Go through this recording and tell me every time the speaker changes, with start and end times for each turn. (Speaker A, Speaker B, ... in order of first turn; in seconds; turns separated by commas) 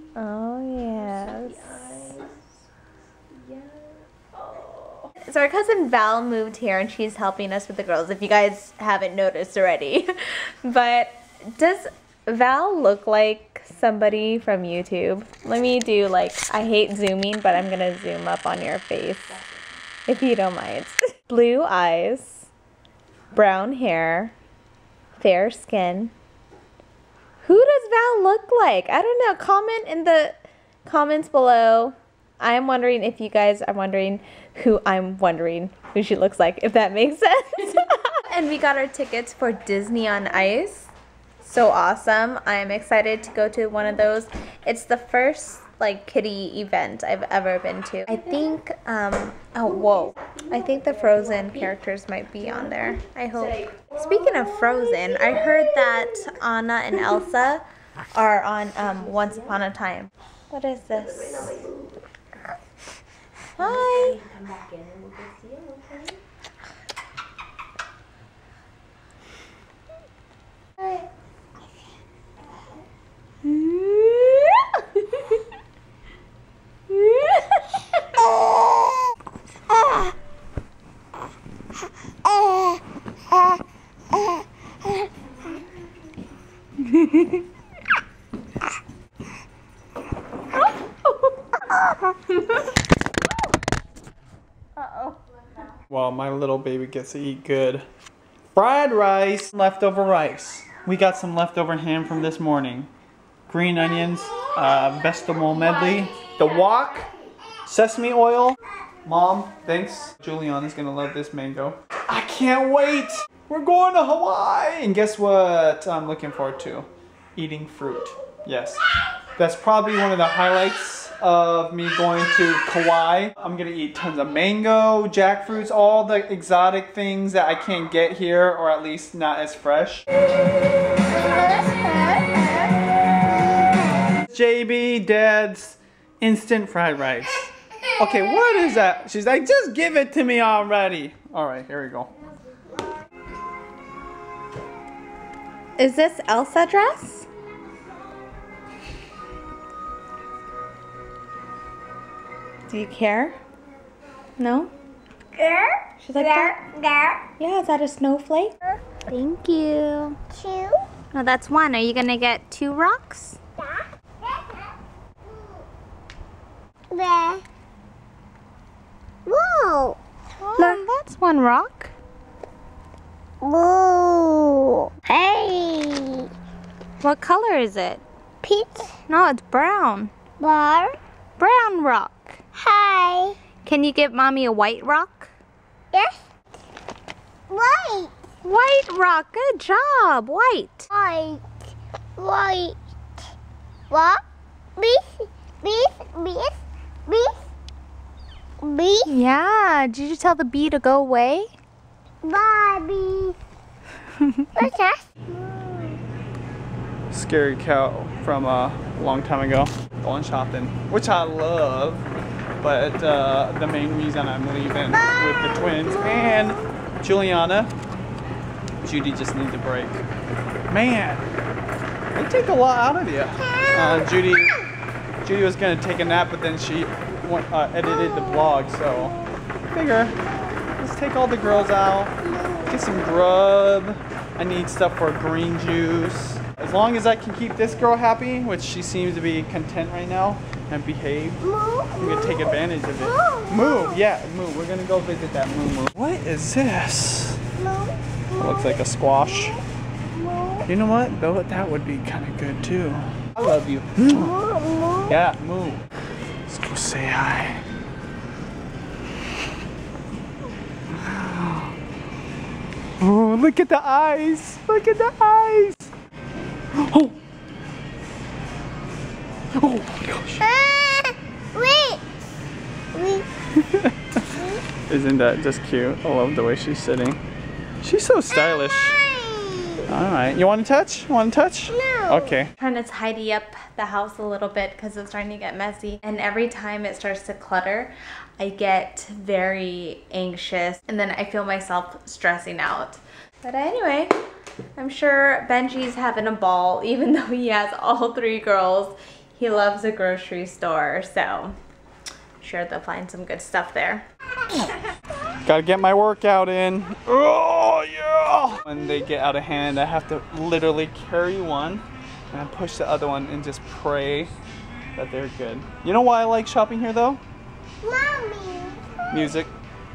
Speaker A: 0.1-2.1, Speaker A: 5.2-19.4, Speaker A: 20.1-22.5, Speaker A: 23.3-24.3, Speaker A: 25.2-26.1, Speaker A: 27.4-57.6, Speaker A: 58.1-61.6, Speaker A: 63.5-64.2, Speaker A: 73.4-74.8, Speaker A: 76.9-77.5, Speaker A: 86.9-87.3, Speaker B: 95.9-97.9, Speaker B: 98.5-102.9, Speaker B: 103.5-107.1, Speaker B: 107.6-130.1, Speaker C: 131.2-132.6, Speaker B: 134.2-142.1, Speaker A: 145.8-147.3, Speaker A: 152.7-153.4, Speaker A: 154.4-154.7, Speaker C: 155.3-157.3, Speaker A: 156.0-156.6, Speaker A: 157.4-160.2, Speaker C: 160.3-160.8, Speaker A: 161.1-163.4, Speaker C: 163.6-164.7, Speaker C: 165.2-165.6, Speaker C: 166.9-167.4, Speaker C: 169.2-170.0, Speaker A: 170.4-171.9, Speaker C: 170.6-170.8, Speaker C: 173.4-176.3, Speaker A: 177.0-178.0, Speaker C: 178.4-178.9, Speaker A: 179.1-180.1, Speaker C: 180.4-181.0, Speaker A: 181.4-182.4, Speaker C: 182.5-183.4, Speaker A: 183.6-185.3, Speaker C: 185.9-186.2, Speaker C: 187.5-188.1, Speaker A: 188.4-190.9, Speaker C: 190.9-192.8, Speaker C: 193.9-194.2, Speaker C: 194.8-197.4, Speaker C: 198.6-199.1, Speaker A: 199.0-201.5, Speaker C: 202.2-203.4, Speaker C: 204.5-206.0, Speaker B: 207.1-212.1, Speaker B: 212.6-217.7, Speaker C: 214.9-216.6, Speaker B: 218.8-220.0, Speaker B: 220.7-221.3, Speaker B: 222.1-224.6, Speaker B: 225.2-230.2, Speaker B: 230.8-247.4, Speaker C: 241.4-243.9, Speaker C: 247.6-248.8, Speaker B: 248.4-249.6, Speaker C: 250.1-250.7, Speaker B: 250.7-254.4, Speaker C: 254.1-255.1, Speaker B: 255.0-255.8, Speaker B: 256.5-257.6, Speaker B: 260.9-261.7, Speaker B: 263.0-265.9, Speaker B: 266.7-267.1, Speaker B: 269.5-270.5, Speaker C: 270.4-272.1, Speaker C: 272.9-273.3, Speaker B: 273.5-274.4, Speaker C: 274.3-274.6, Speaker B: 274.9-277.2, Speaker B: 277.8-279.0, Speaker C: 278.4-279.9, Speaker B: 279.9-282.5, Speaker C: 281.7-282.4, Speaker A: 282.6-294.1, Speaker A: 294.8-301.6, Speaker A: 302.4-304.1, Speaker B: 305.4-314.3, Speaker B: 314.9-317.2, Speaker C: 317.8-319.4, Speaker B: 319.1-319.5